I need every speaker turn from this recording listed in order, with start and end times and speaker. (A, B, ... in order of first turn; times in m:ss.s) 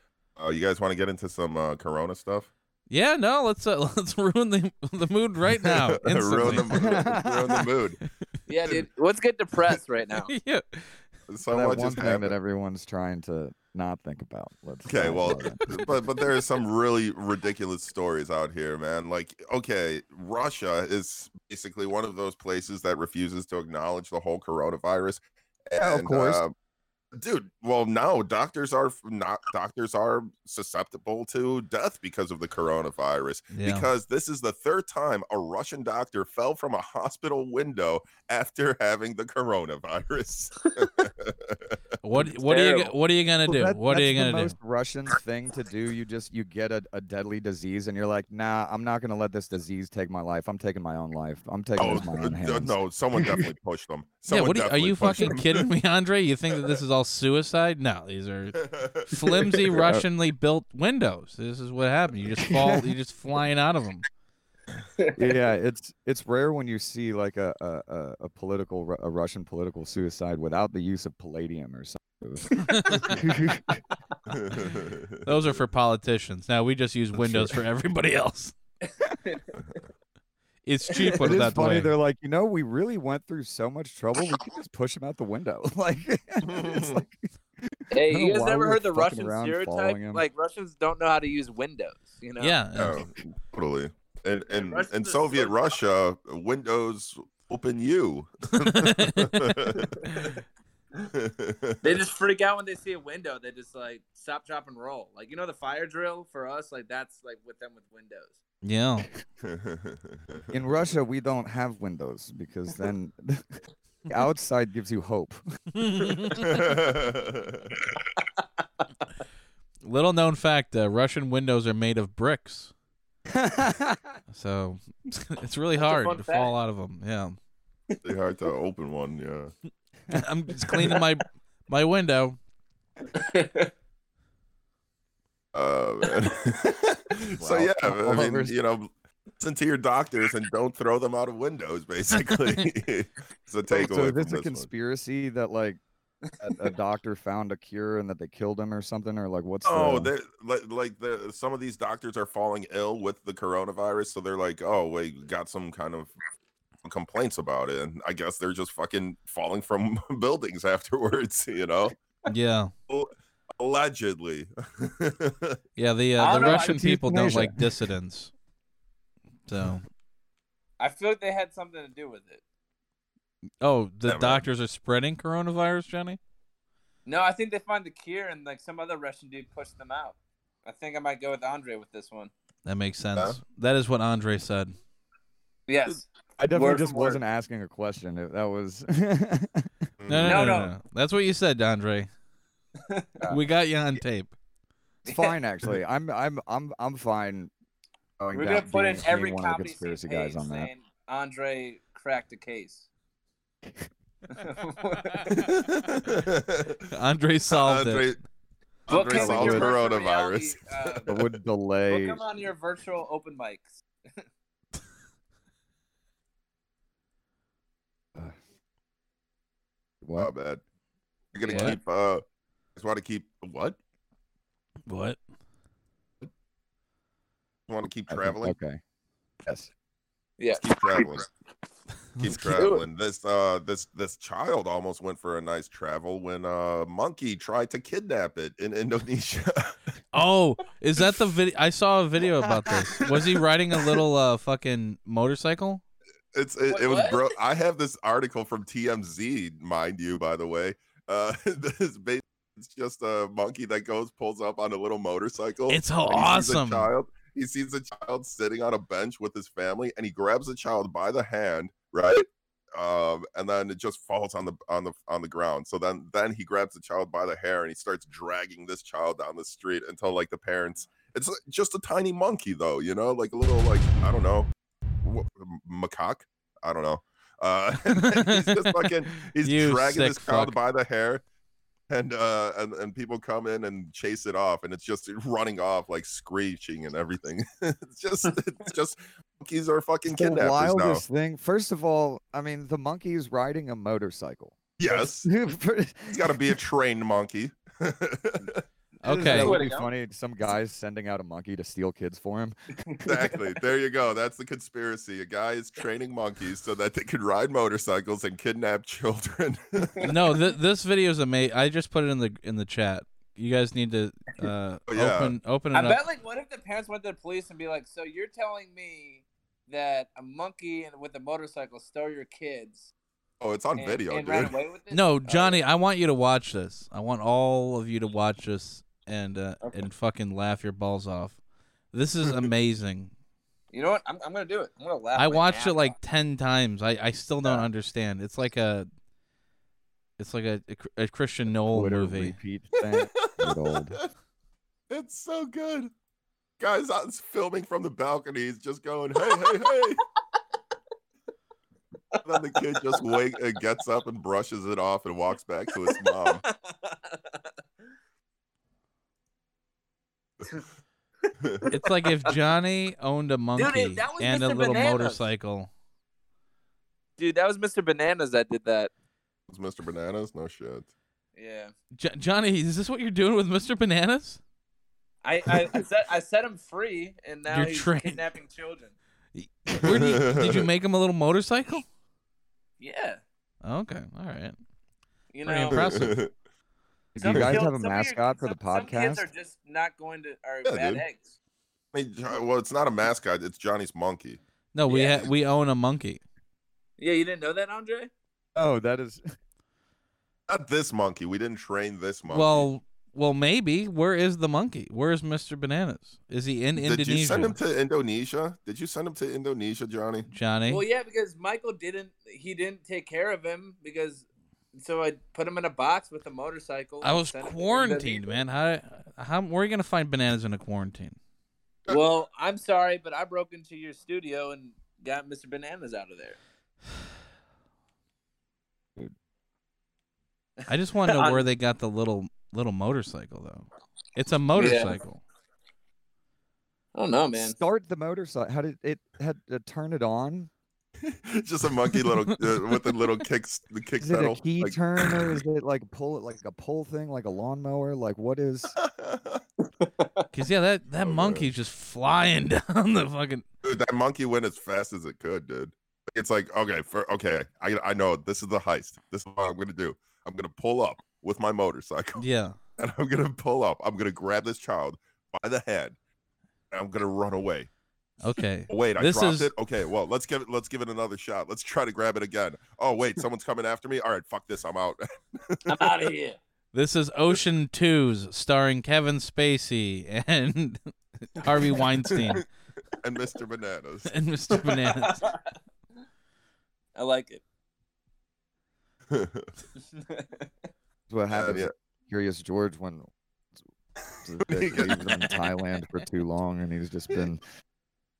0:00.4-0:02.5 A
0:02.9-0:06.7 B
0:05.6-0:08.0 A
0:06.5-0:07.7 C
0:08.5-0:10.3 D
0:10.3-0:10.9 B
0:11.3-0:12.3 A
0:11.5-0:15.6 C
0:14.8-0:26.5 A
0:25.8-0:26.4 C
0:27.1-0:41.8 A
0:33.5-0:33.9 B
0:42.0-0:44.5 B
0:42.4-0:42.9 D
0:43.4-0:53.4 C
0:51.8-0:55.7 A
0:54.3-1:04.0 B
0:58.6-0:59.1 A
0:59.8-1:00.0 C
1:02.4-1:02.9 C
1:05.2-1:13.8 C
1:12.7-1:13.1 B
1:14.3-1:15.6 A
1:15.2-1:18.5 B
1:17.2-1:17.6 C
1:18.8-1:19.5 D
1:20.6-1:21.9 B
1:21.2-1:30.2 C
1:26.4-1:27.0 A
1:27.9-1:32.6 D
1:32.4-1:33.0 B
1:32.8-1:40.1 A
1:34.5-1:35.8 D
1:38.6-1:39.5 B
1:40.1-1:40.3 B
1:41.0-1:42.0 A
1:41.8-1:48.4 D
1:48.6-1:49.1 B
1:49.4-1:50.5 A
1:50.5-1:53.4 C
1:54.1-1:55.4 C
1:55.8-1:56.4 B
1:56.4-1:57.9 A
1:59.8-2:02.7 B
2:03.3-2:04.1 C
2:04.3-2:07.3 B
2:05.8-2:06.5 D
2:08.0-2:09.5 A
2:10.1-2:12.4 B
2:13.1-2:13.7 D
2:15.5-2:24.7 A
2:17.3-2:18.5 C
2:22.2-2:22.6 B
2:23.7-2:25.8 C
2:26.4-2:30.1 C
2:29.6-2:36.1 A
2:36.8-2:42.0 A
2:42.3-2:42.7 B
2:42.9-2:45.6 A
2:45.8-2:48.3 B
2:46.2-2:46.8 D
2:46.2-2:47.7 C
2:49.5-2:49.8 B
2:50.8-2:52.4 D
2:53.6-2:56.2 B
2:54.0-2:54.4 A
2:57.0-3:02.3 D
3:02.6-3:04.7 B
3:05.7-3:07.2 D
3:06.4-3:09.7 C
3:10.0-3:10.6 A
3:10.1-3:12.1 B
3:10.2-3:10.7 D
3:13.3-3:14.3 B
3:15.0-3:15.3 D
3:15.0-3:17.5 C
3:18.2-3:20.7 C
3:18.3-3:22.9 D
3:24.3-3:25.4 D
3:25.3-3:26.9 A
3:26.9-3:28.1 B
3:27.5-3:28.2 A
3:28.9-3:31.3 A
3:28.9-3:31.1 D
3:29.0-3:29.7 C
3:31.1-3:32.2 C
3:31.9-3:33.8 D
3:40.0-3:40.3 C
3:40.2-3:40.6 A
3:41.3-3:42.2 A
3:41.4-3:41.8 D
3:41.5-3:41.8 B
3:42.8-3:43.8 A
3:44.9-3:45.2 B
3:47.7-3:48.6 A
3:48.1-3:48.8 C
3:50.4-3:51.2 D
3:50.5-3:51.3 A
3:52.2-3:52.4 B
3:52.2-3:59.8 A
3:52.4-3:52.8 D
4:00.1-4:05.8 B
4:01.0-4:01.3 A
4:06.3-4:34.5 A
4:06.7-4:07.2 D
4:15.7-4:16.9 B
4:35.0-4:41.2 A
4:37.9-4:40.6 B
4:41.9-4:51.0 A
4:50.0-4:56.4 C
4:54.8-4:55.3 A
4:56.1-4:58.6 A
4:59.0-4:59.6 B
4:59.0-5:02.6 C
4:59.3-4:59.9 D
5:03.0-5:10.1 A
5:10.0-5:16.0 B
5:14.9-5:15.3 A
5:15.7-5:22.9 D
5:23.4-5:24.5 A
5:23.8-5:25.6 D
5:24.9-5:31.4 B
5:31.9-5:33.1 B
5:33.7-5:35.9 D
5:35.2-5:38.9 B
5:40.2-5:42.4 B
5:41.7-5:44.0 C
5:42.9-5:43.6 A
5:44.9-5:45.9 A
5:46.6-5:50.0 A
5:52.1-5:53.0 D
5:52.2-5:56.4 A
5:55.9-5:57.5 D
6:01.2-6:02.3 D
6:01.4-6:01.7 A
6:01.7-6:05.7 B
6:03.6-6:05.2 D
6:07.2-6:08.9 D
6:09.5-6:10.9 A
6:11.4-6:11.7 D
6:11.9-6:14.4 B
6:15.2-6:19.0 D
6:17.5-6:18.2 B
6:19.3-6:21.8 B
6:19.8-6:20.6 A
6:22.8-6:23.2 D
6:23.6-6:24.6 B
6:25.3-6:25.8 D
6:25.4-6:26.2 B
6:25.7-6:26.3 A
6:27.1-6:29.2 C
6:27.2-6:31.3 D
6:27.3-6:27.6 A
6:30.6-6:31.0 A
6:31.9-6:34.4 A
6:34.7-6:36.2 B
6:34.9-6:35.2 D
6:37.0-6:38.1 D
6:38.5-6:39.2 C
6:40.5-6:42.7 A
6:42.3-6:47.6 B
6:46.8-6:50.3 A
6:50.3-6:50.8 B
6:50.7-6:58.4 D
6:57.0-7:01.2 B
7:01.9-7:06.4 D
7:10.7-7:11.4 D
7:10.7-7:15.2 B
7:14.5-7:15.0 D
7:16.9-7:17.6 D
7:17.4-7:20.5 C
7:21.0-7:25.4 A
7:24.0-7:28.8 C
7:28.8-7:29.4 A
7:29.8-7:30.2 D
7:30.3-7:33.4 B
7:31.0-7:31.5 A
7:33.6-7:42.2 A
7:42.2-7:42.5 B
7:42.8-7:46.0 A
7:46.7-7:47.7 A
7:48.2-7:49.5 B
7:48.7-7:56.0 A
7:55.7-7:56.4 D
7:56.7-8:02.4 B
8:01.4-8:01.8 D
8:03.0-8:04.1 A
8:04.1-8:05.3 B
8:04.5-8:05.5 D
8:06.9-8:07.4 D
8:09.1-8:09.5 A
8:09.9-8:10.5 D
8:11.1-8:13.1 C
8:11.3-8:11.7 A
8:14.2-8:17.4 C
8:14.4-8:15.3 A